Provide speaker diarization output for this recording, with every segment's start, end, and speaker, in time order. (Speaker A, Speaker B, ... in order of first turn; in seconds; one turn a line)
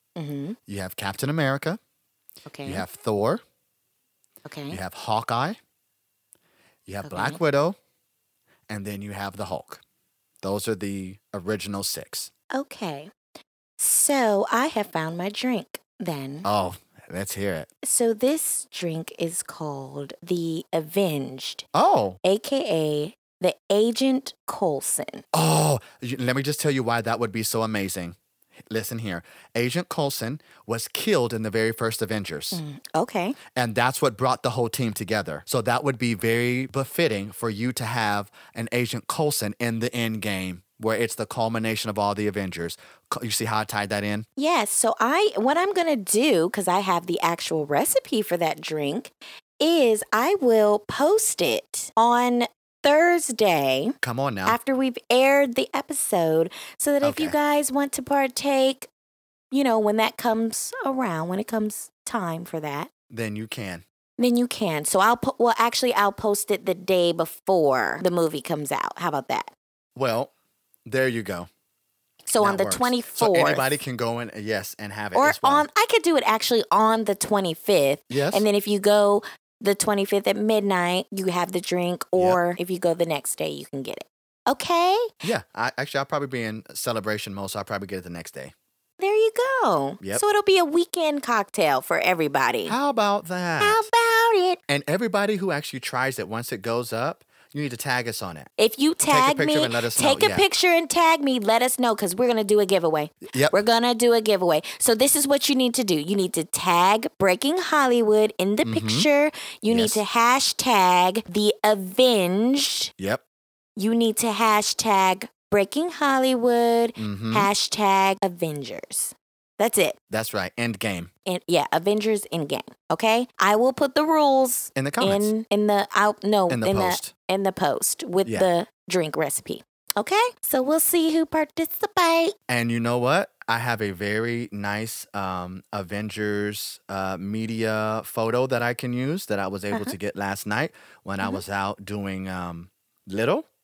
Speaker A: 0.2-0.6
Speaker B: 0.7-1.8
Speaker A: 2.5-2.9
Speaker B: 2.7-3.4
Speaker A: 4.5-4.8
Speaker B: 4.7-5.6
Speaker B: 6.9-7.8
Speaker A: 7.0-7.4
Speaker B: 8.7-9.8
Speaker B: 10.4-12.3
Speaker A: 12.5-13.1
Speaker A: 13.8-16.5
Speaker B: 16.4-17.7
Speaker A: 17.8-21.6
Speaker B: 21.7-22.2
Speaker A: 22.2-25.2
Speaker B: 25.3-28.2
Speaker B: 28.7-32.6
Speaker A: 32.5-33.4
Speaker B: 33.5-44.3
Speaker A: 44.4-58.9
Speaker B: 54.0-54.6
Speaker B: 57.0-57.4
Speaker A: 59.5-62.9
Speaker B: 63.1-63.8
Speaker A: 64.2-69.5
Speaker B: 70.0-70.3
Speaker B: 70.9-71.5
Speaker A: 72.3-73.8
Speaker B: 72.4-75.7
Speaker A: 75.2-85.1
Speaker B: 78.1-78.5
Speaker B: 85.2-88.5
Speaker A: 89.0-92.8
Speaker B: 92.7-93.9
Speaker A: 93.6-94.6
Speaker B: 94.7-98.5
Speaker A: 98.6-112.9
Speaker B: 99.1-100.4
Speaker B: 103.3-103.6
Speaker B: 108.6-109.1
Speaker B: 109.7-110.0
Speaker A: 113.8-120.0
Speaker B: 117.0-117.5
Speaker B: 120.1-121.1
Speaker A: 121.3-132.3
Speaker B: 124.8-125.3
Speaker B: 126.5-127.1
Speaker B: 132.5-143.5